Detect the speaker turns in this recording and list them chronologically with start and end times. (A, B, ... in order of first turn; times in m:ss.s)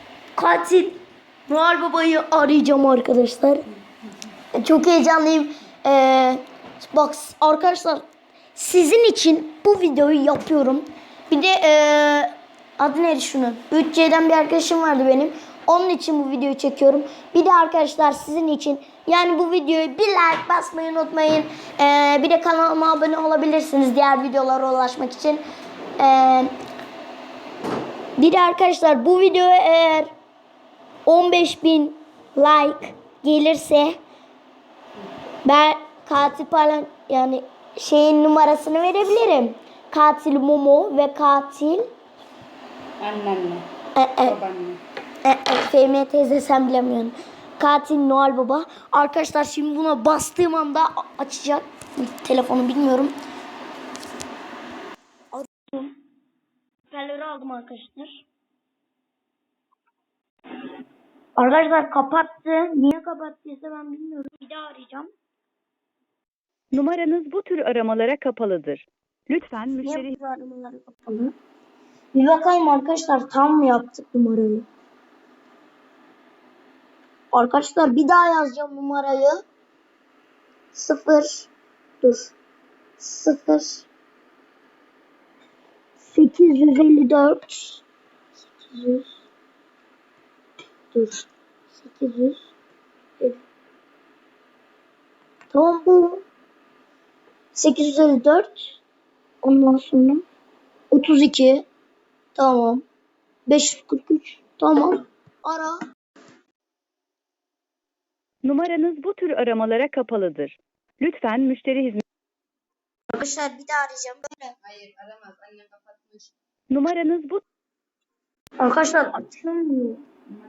0:00.4-0:03.7 A
0:04.6-0:25.4 A
0:26.0-0:26.5 A
0:28.2-0:30.1 A
0:31.0-0:34.0 A
0:35.4-0:41.9 A
0:43.0-0:43.7 B
0:44.0-0:44.4 A
0:44.3-0:44.8 B
0:45.2-0:53.1 A
0:55.3-0:55.9 A
0:56.9-0:58.2 A
1:01.4-1:05.1 A
1:06.7-1:10.2 C
1:09.8-1:11.3 A
1:12.1-1:14.7 A
1:17.3-1:19.4 A
1:20.7-1:21.5 A
1:22.0-1:22.3 A
1:23.0-1:23.9 A
1:26.0-1:27.8 A
1:28.4-1:29.2 A
1:30.9-1:32.5 A
1:35.5-1:36.2 A
1:37.5-1:38.7 A
1:39.4-1:40.2 A
1:40.9-1:41.7 A
1:42.4-1:42.8 A
1:43.5-1:45.8 A
1:48.4-1:52.0 C
1:53.1-1:54.6 A
1:55.0-1:56.3 B
1:56.7-1:57.4 C
1:58.6-2:00.0 A